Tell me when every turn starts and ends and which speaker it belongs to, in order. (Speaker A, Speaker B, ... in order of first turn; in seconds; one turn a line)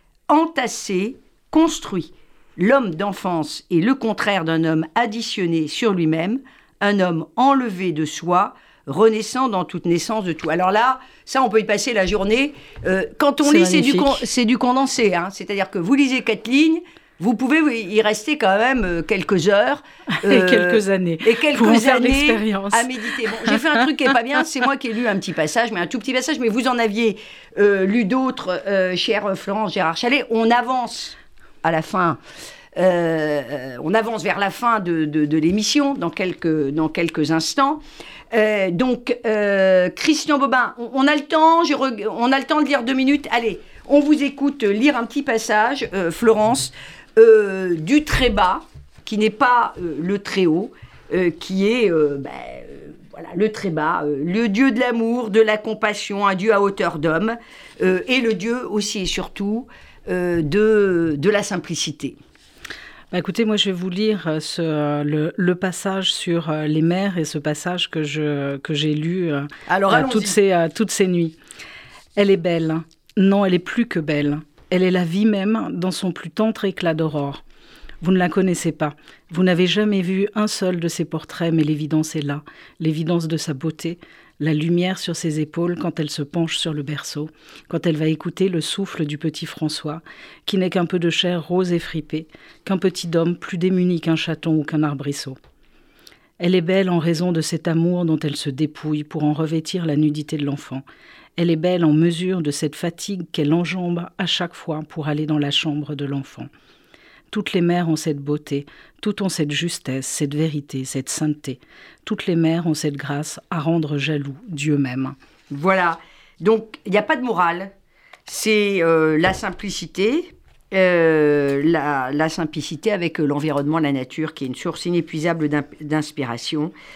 Speaker A: 0.3-32.2
Speaker B: 13.4-14.2
Speaker B: 20.1-23.7
Speaker A: 32.8-62.1
Speaker B: 63.1-71.4
Speaker A: 69.7-70.4
Speaker B: 72.2-77.4
Speaker B: 78.0-95.4
Speaker B: 96.4-100.8
Speaker B: 101.4-106.5
Speaker B: 107.3-115.2
Speaker A: 115.5-117.7
Speaker A: 118.3-126.7